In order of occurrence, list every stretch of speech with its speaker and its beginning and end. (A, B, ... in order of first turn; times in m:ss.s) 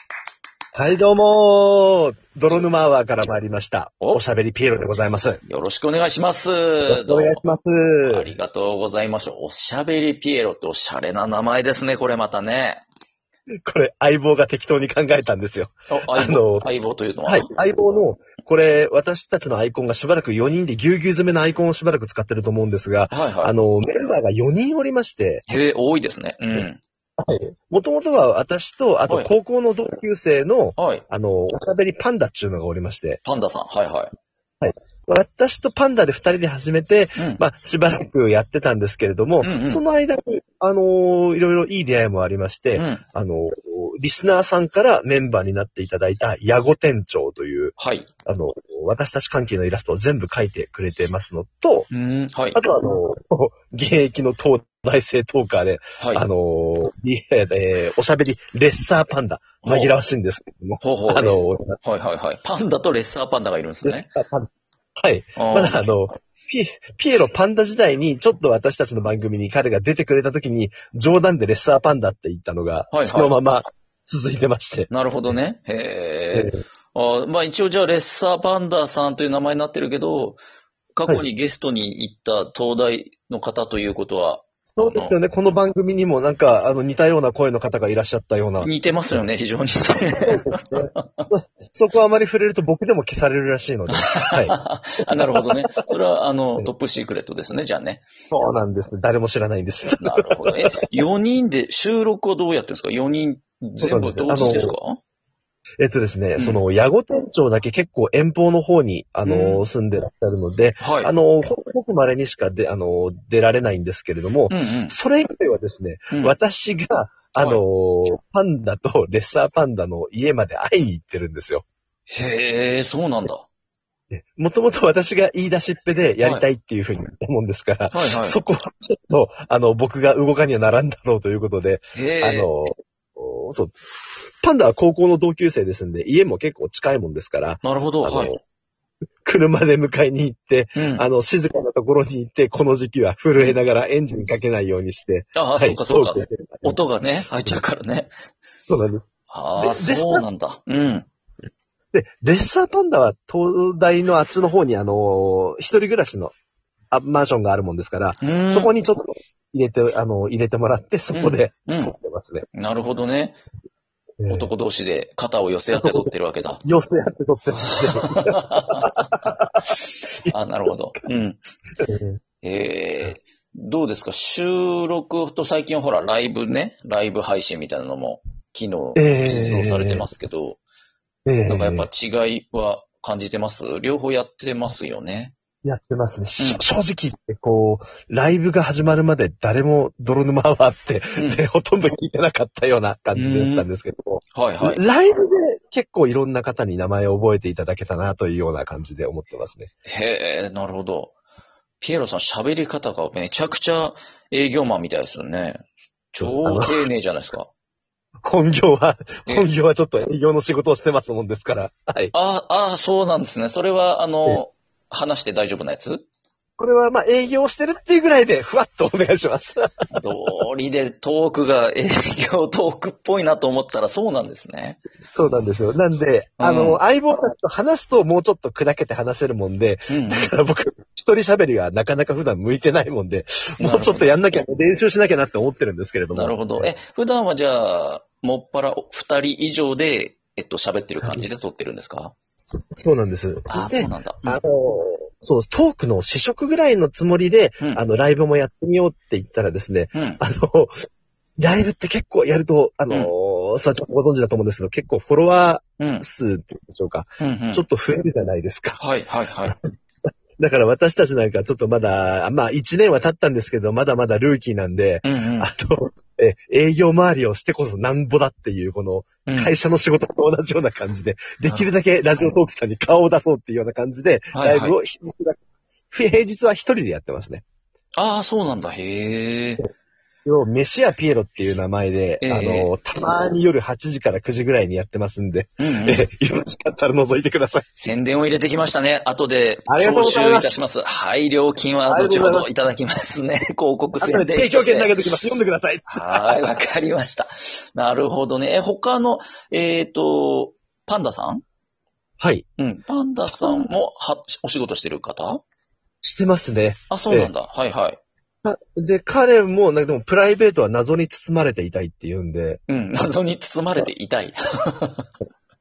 0:00.7-0:05.4 A
0:05.4-0:07.4 B
0:06.9-0:08.3 A
0:08.0-0:12.8 B
0:13.6-0:16.7 A
0:15.9-0:17.5 B
0:17.2-0:25.4 A
0:23.1-0:23.5 B
0:25.5-0:26.8 B
0:27.2-0:33.2 A
0:30.8-0:31.0 B
0:33.2-0:34.1 B
0:34.6-0:51.9 A
0:37.2-0:37.4 B
0:39.4-0:39.8 B
0:42.7-0:43.0 B
0:47.8-0:48.1 B
0:51.9-0:52.6 B
0:52.5-1:01.8 A
0:56.0-0:56.3 B
0:59.6-0:59.9 B
1:00.8-1:04.1 B
1:03.8-1:14.9 A
1:05.4-1:05.9 B
1:12.9-1:13.3 B
1:14.9-1:20.4 B
1:16.3-1:16.6 A
1:20.9-1:25.1 B
1:24.7-1:28.7 A
1:28.6-1:30.4 B
1:30.1-1:34.6 A
1:31.0-1:31.2 B
1:33.9-1:38.0 B
1:35.1-1:35.4 A
1:38.3-1:40.8 A
1:40.0-1:45.0 B
1:43.8-1:44.8 A
1:45.8-2:01.6 A
1:46.4-1:46.6 B
1:49.2-1:49.6 B
1:50.8-1:51.1 B
1:54.5-1:55.0 B
2:02.1-2:03.4 B
2:04.1-2:13.7 A
2:07.9-2:08.4 B
2:11.9-2:12.5 B
2:14.4-2:18.4 A
2:17.6-2:18.3 B
2:19.2-2:26.8 A
2:20.7-2:21.0 B
2:25.3-2:28.1 B
2:28.7-2:29.0 A
2:29.3-2:31.1 B
2:29.6-2:30.2 A
2:31.9-2:36.3 A
2:36.9-2:42.4 A
2:38.2-2:38.7 B
2:41.1-2:41.9 B
2:42.5-2:43.4 B
2:44.2-2:44.5 A
2:44.3-2:46.6 B
2:45.7-2:46.1 A
2:46.6-2:49.7 A
2:48.0-2:48.9 B
2:49.7-2:51.4 B
2:51.8-2:52.2 A
2:52.4-3:00.6 B
2:58.9-3:00.1 A
3:01.2-3:01.9 A
3:01.4-3:05.3 B
3:05.6-3:19.7 A
3:06.4-3:06.6 B
3:11.2-3:11.4 B
3:13.1-3:13.7 B
3:14.3-3:14.8 B
3:19.9-3:21.1 B
3:21.8-3:25.6 B
3:26.1-3:27.5 B
3:26.2-3:26.8 A
3:28.2-3:32.1 A
3:32.1-3:36.0 B
3:36.6-3:40.0 A
3:39.9-3:44.8 B
3:45.1-3:56.7 A
3:46.4-3:46.8 B
3:49.9-3:50.3 B
3:53.6-3:54.1 B
3:56.1-4:02.1 B
4:01.0-4:01.3 A
4:02.4-4:10.7 A
4:03.5-4:04.4 B
4:09.9-4:10.2 B
4:11.4-4:18.8 A
4:15.8-4:16.0 B
4:17.2-4:17.6 B
4:18.8-4:19.6 B
4:20.4-4:35.4 A
4:25.0-4:25.5 B
4:29.2-4:29.5 B
4:34.3-4:34.8 B
4:35.9-4:37.4 A
4:38.0-4:39.6 B
4:40.2-4:47.7 A
4:42.2-4:42.7 B
4:45.6-4:46.1 B
4:47.8-4:54.9 B
4:49.7-4:50.6 A
4:51.9-4:52.5 A
4:54.0-4:56.4 A
4:55.9-5:01.4 B
5:02.2-5:02.4 A
5:02.6-5:05.4 B
5:06.0-5:07.3 A
5:06.9-5:08.0 B
5:08.4-5:12.6 A
5:12.7-5:15.1 B